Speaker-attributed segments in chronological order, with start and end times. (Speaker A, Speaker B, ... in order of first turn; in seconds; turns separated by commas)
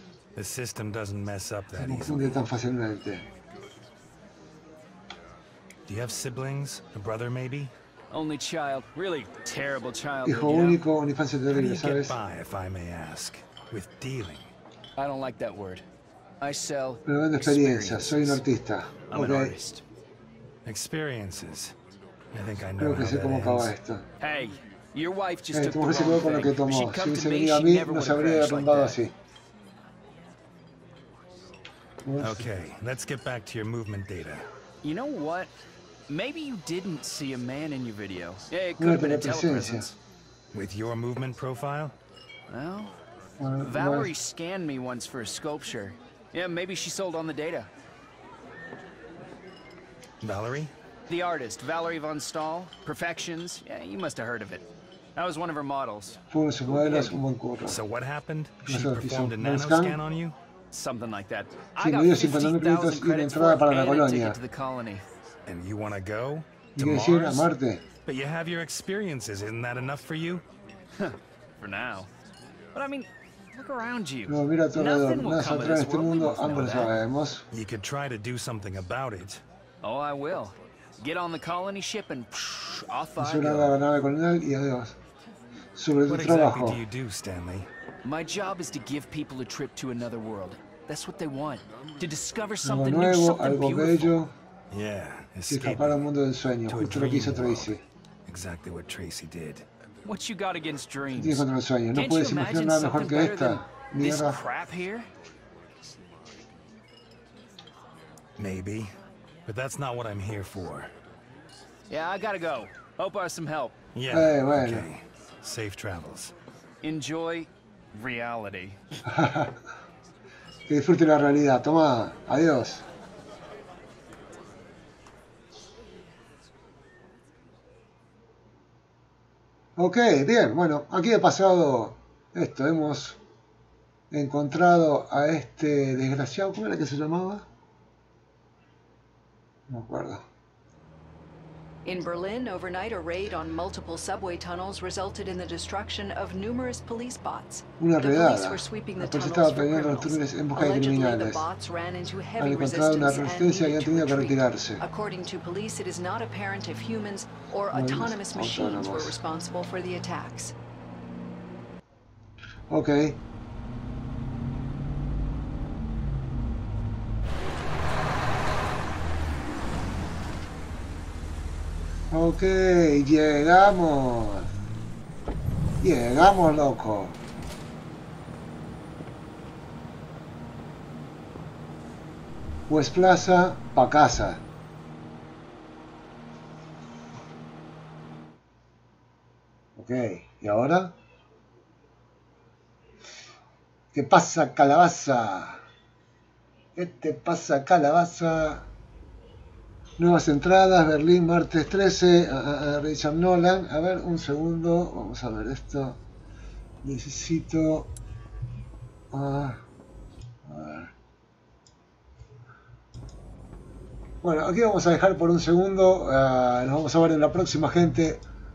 Speaker A: 0.3-2.5, Speaker B: 1.8-3.2, Speaker A: 5.9-7.7, Speaker C: 8.1-10.8, Speaker B: 10.2-12.2, Speaker A: 11.5-14.5, Speaker C: 15.0-15.8, Speaker C: 16.4-18.4, Speaker B: 17.1-19.5, Speaker C: 19.1-19.8, Speaker A: 20.6-21.7, Speaker A: 22.3-23.7, Speaker B: 22.8-24.0, Speaker C: 24.2-29.0, Speaker B: 25.5-29.1, Speaker B: 32.0-32.5, Speaker A: 32.2-34.5, Speaker C: 34.8-35.5, Speaker C: 36.1-40.0, Speaker B: 38.8-39.9, Speaker A: 40.5-42.0, Speaker C: 42.5-42.9, Speaker B: 43.4-44.1, Speaker C: 43.6-47.7, Speaker A: 50.2-50.7, Speaker C: 51.1-57.1, Speaker B: 56.3-57.8, Speaker A: 57.6-60.4, Speaker B: 58.6-60.0, Speaker C: 60.7-65.0, Speaker B: 61.8-64.4, Speaker A: 65.5-67.5, Speaker B: 66.8-67.8, Speaker A: 68.0-70.4, Speaker C: 71.0-72.1, Speaker C: 72.7-76.9, Speaker B: 74.3-77.4, Speaker A: 77.5-79.4, Speaker C: 79.8-83.7, Speaker B: 83.2-84.9, Speaker B: 85.8-86.8, Speaker A: 86.1-87.7, Speaker C: 88.0-94.2, Speaker B: 92.6-94.3, Speaker A: 94.7-96.1, Speaker B: 95.5-97.8, Speaker A: 96.7-97.7, Speaker A: 98.3-99.7, Speaker C: 100.0-105.1, Speaker B: 101.1-104.4, Speaker A: 108.4-108.9, Speaker A: 109.5-110.9, Speaker C: 111.9-113.8, Speaker A: 113.9-116.3, Speaker B: 114.1-114.9, Speaker C: 116.8-119.0, Speaker B: 119.1-119.5, Speaker B: 120.7-122.8, Speaker B: 129.8-133.2, Speaker B: 134.1-137.4, Speaker B: 139.7-140.2, Speaker D: 141.8-160.5, Speaker B: 147.8-151.4, Speaker B: 152.4-154.8, Speaker B: 157.7-159.2, Speaker B: 162.7-163.2, Speaker B: 172.1-174.5, Speaker B: 175.8-177.2, Speaker B: 182.7-184.4, Speaker B: 189.8-190.9, Speaker B: 193.9-195.6, Speaker B: 196.8-198.7, Speaker B: 200.0-206.0, Speaker B: 206.8-207.9, Speaker B: 209.1-209.6, Speaker B: 210.4-210.9, Speaker B: 214.2-218.2